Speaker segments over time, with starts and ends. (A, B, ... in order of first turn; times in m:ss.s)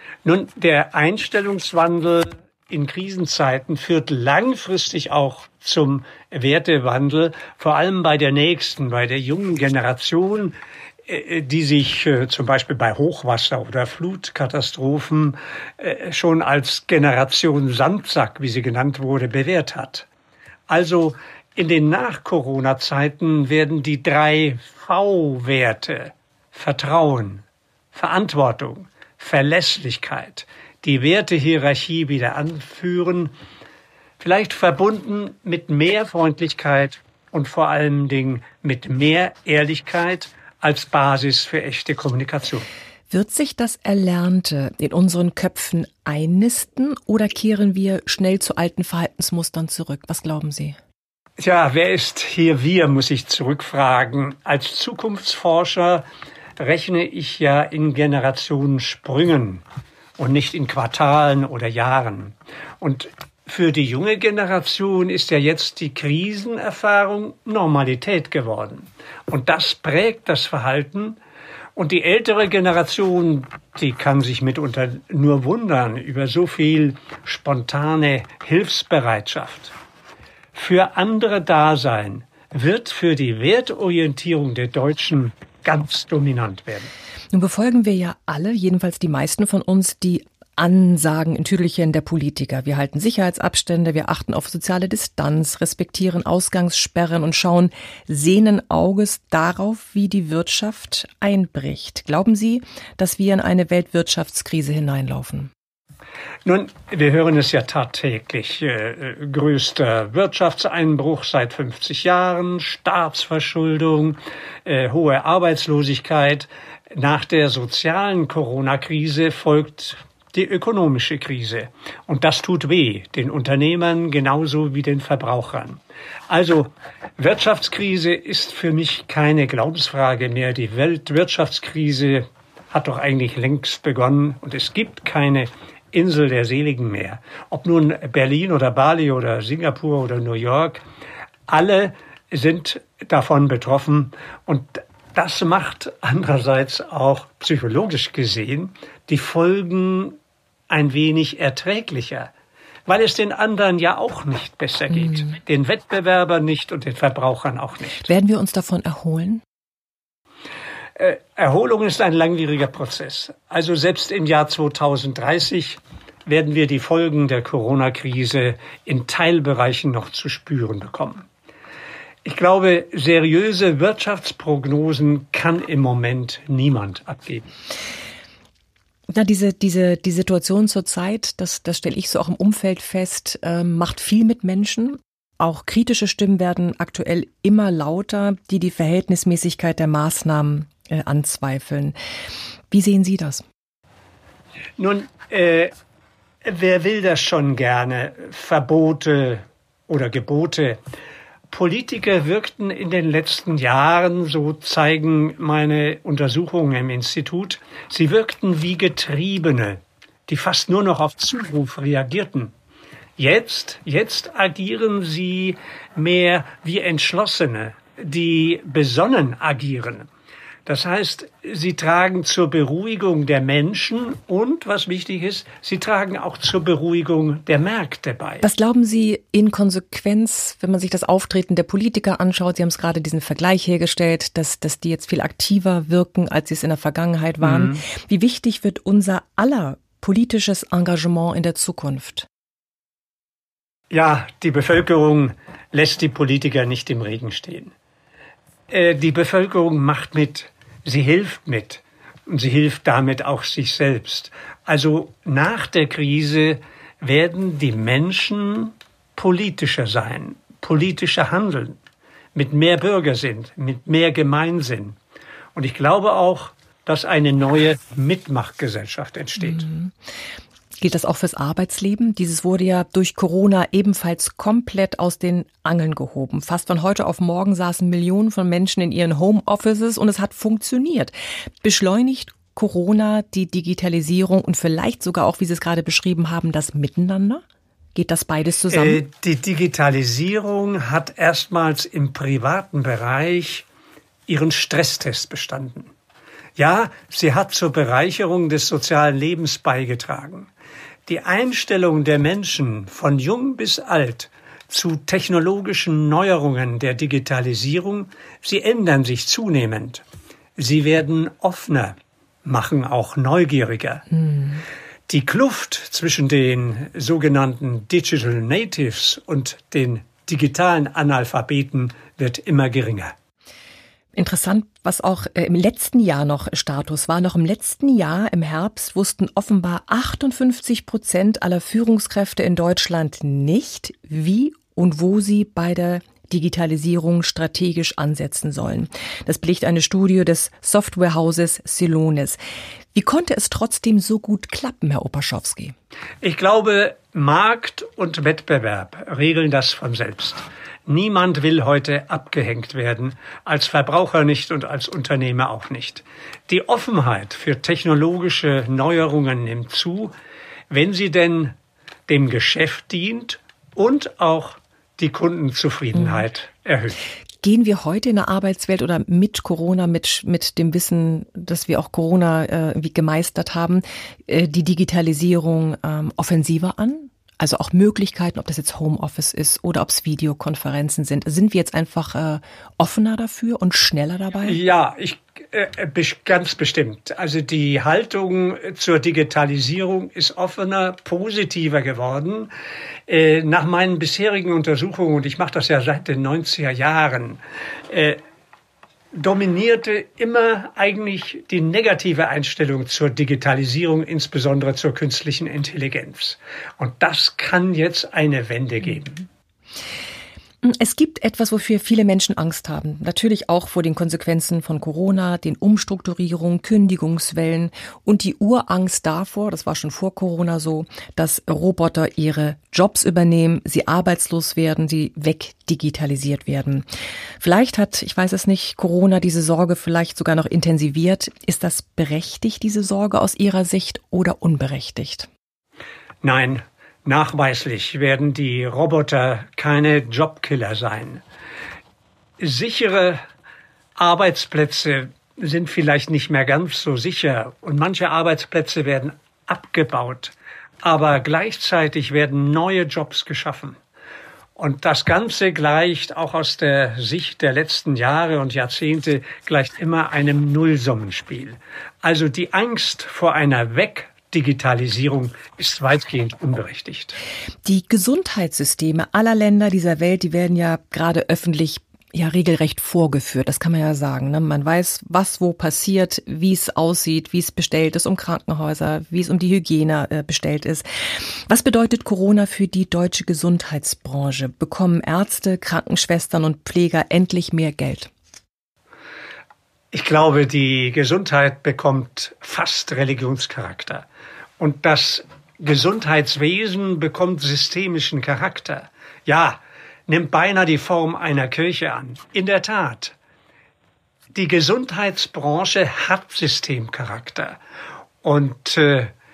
0:00.2-0:10.6 A
0:11.1-0:20.1 A
0:20.7-0:33.3 A
0:34.2-0:42.7 A
0:43.1-0:50.8 B
0:51.4-0:56.0 A
0:56.6-0:59.6 A
1:00.2-1:11.2 A
1:11.8-1:19.7 A
1:20.5-1:26.9 A
1:27.3-1:45.5 B
1:46.4-2:20.8 A
2:21.5-2:30.2 A
2:30.7-2:32.3 A
2:32.9-2:38.1 A
2:38.0-2:39.4 B
2:41.0-2:51.2 A
2:52.2-2:57.5 A
2:59.1-3:12.0 B
3:12.7-3:13.4 B
3:14.8-3:15.7 A
3:16.4-3:20.8 A
3:21.5-3:32.5 A
3:33.2-3:40.1 A
3:40.7-3:48.4 A
3:48.4-4:02.3 B
3:57.4-3:57.8 A
4:03.9-4:07.7 A
4:08.7-4:21.8 A
4:22.4-4:25.0 A
4:25.6-4:29.7 A
4:29.4-4:29.9 B
4:30.8-4:47.4 B
4:48.0-4:49.0 B
4:48.7-4:53.6 A
4:54.3-4:55.9 A
4:56.6-5:00.5 A
5:01.1-5:10.0 A
5:10.6-5:14.1 A
5:15.1-5:23.1 A
5:24.2-5:42.4 B
5:42.9-5:45.8 B
5:46.2-6:00.1 A
6:00.7-6:01.6 A
6:02.1-6:07.0 A
6:07.4-6:24.6 B
6:24.4-6:32.5 A
6:33.1-6:38.2 A
6:39.1-6:49.3 A
6:50.6-7:06.8 B
7:07.4-7:15.3 B
7:16.2-7:21.2 A
7:22.4-7:23.2 A
7:24.0-7:33.8 A
7:34.6-7:47.2 A
7:47.6-8:00.9 B
8:01.5-8:08.1 B
8:09.9-8:14.0 A
8:14.6-8:23.2 A
8:24.3-8:27.6 A
8:28.2-8:29.1 A